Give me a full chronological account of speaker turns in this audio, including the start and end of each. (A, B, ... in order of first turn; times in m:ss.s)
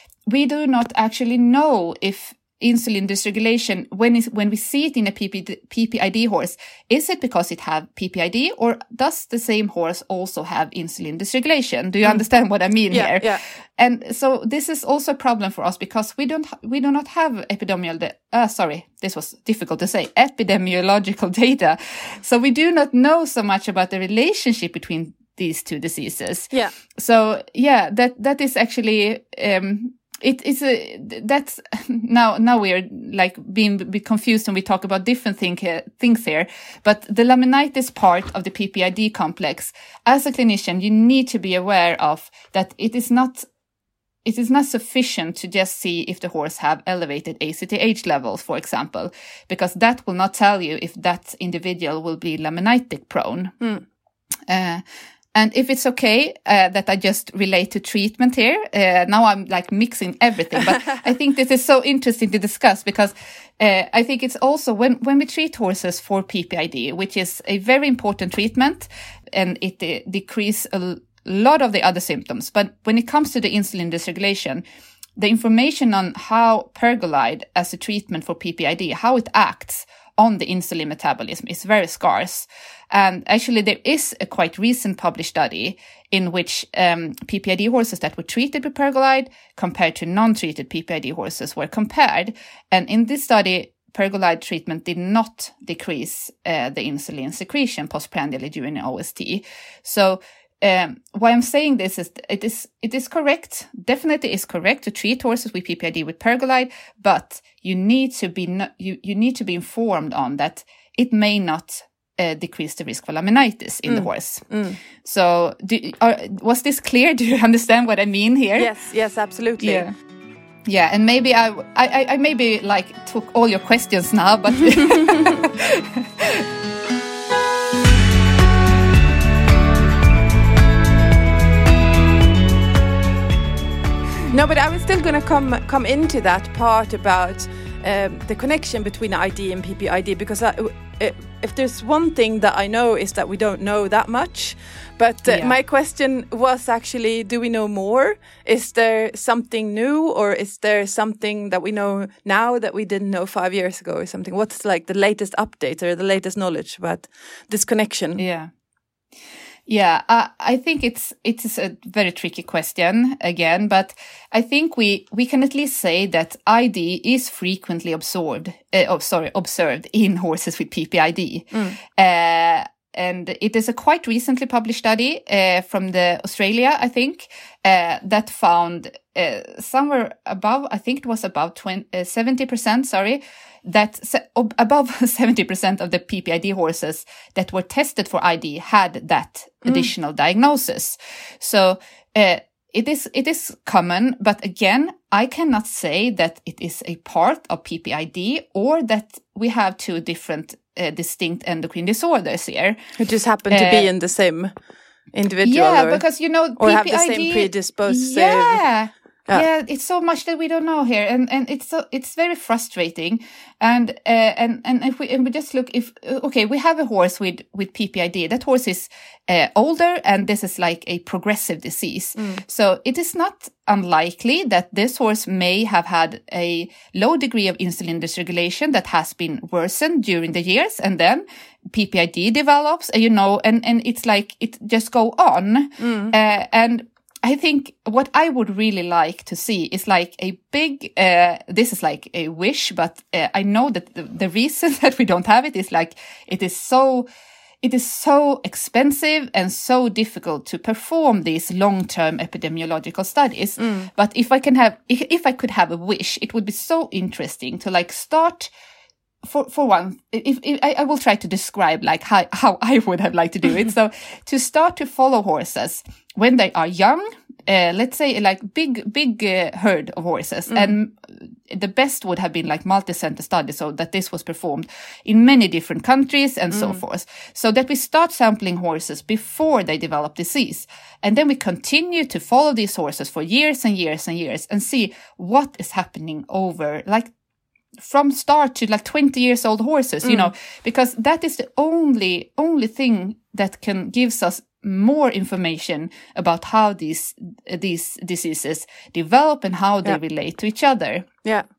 0:00.3-0:43.5 A
0:12.9-0:13.4 B
0:44.2-0:53.6 A
0:54.5-0:54.8 A
0:55.3-1:14.6 A
1:15.2-1:54.5 A
1:53.9-1:54.8 B
1:55.0-1:58.7 A
1:58.6-1:59.9 B
1:59.6-1:59.9 A
2:00.7-2:06.4 A
2:14.3-2:38.2 B
2:25.3-2:25.6 A
2:38.2-2:38.5 A
2:39.7-3:22.8 A
2:51.5-2:51.8 B
3:23.0-3:24.5 B
3:23.5-3:23.9 A
3:25.1-3:28.7 B
3:25.4-4:07.1 A
3:42.2-3:42.4 B
3:55.8-3:56.1 B
4:07.6-4:18.5 A
4:13.6-4:13.9 B
4:19.2-4:47.1 A
4:36.5-4:36.8 B
4:47.8-5:01.1 A
4:50.0-4:50.3 B